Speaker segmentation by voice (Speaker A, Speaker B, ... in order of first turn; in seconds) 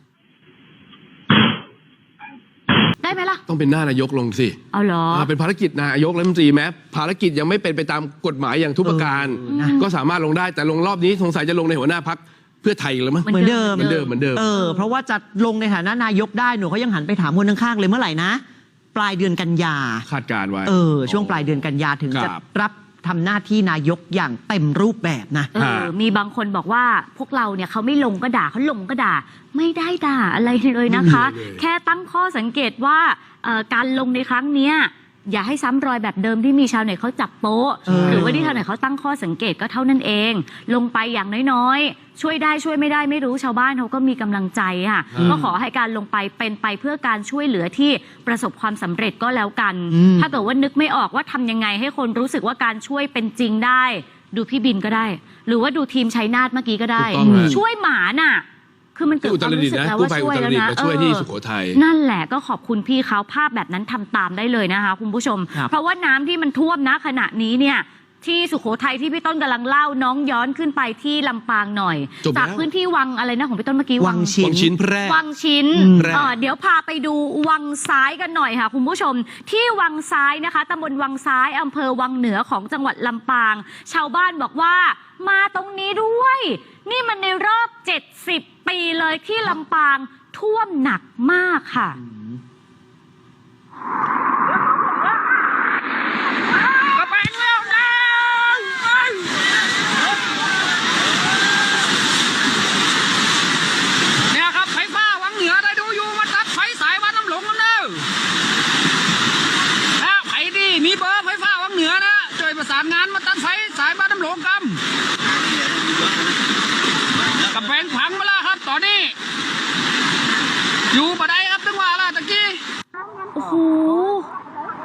Speaker A: 3.0-3.4, 4.7-5.3, 9.5-9.9, 13.2-14.8, 25.5-74.3, 75.0-92.0, 123.3-124.3
Speaker B: 3.5-4.6, 5.1-14.4, 20.1-22.4, 25.6-25.9, 31.1-31.6, 37.9-38.2, 57.0-57.5, 59.2-61.8, 72.2-72.7, 74.4-75.2, 75.8-76.4
Speaker C: 8.8-9.8, 13.3-18.4, 18.9-20.1, 20.6-25.5, 37.9-38.6, 45.1-45.4, 49.9-50.3, 57.2-57.6, 74.0-74.7, 75.7-76.2
Speaker D: 97.0-97.9, 104.3-108.0, 110.0-114.8, 117.5-119.1, 120.9-122.6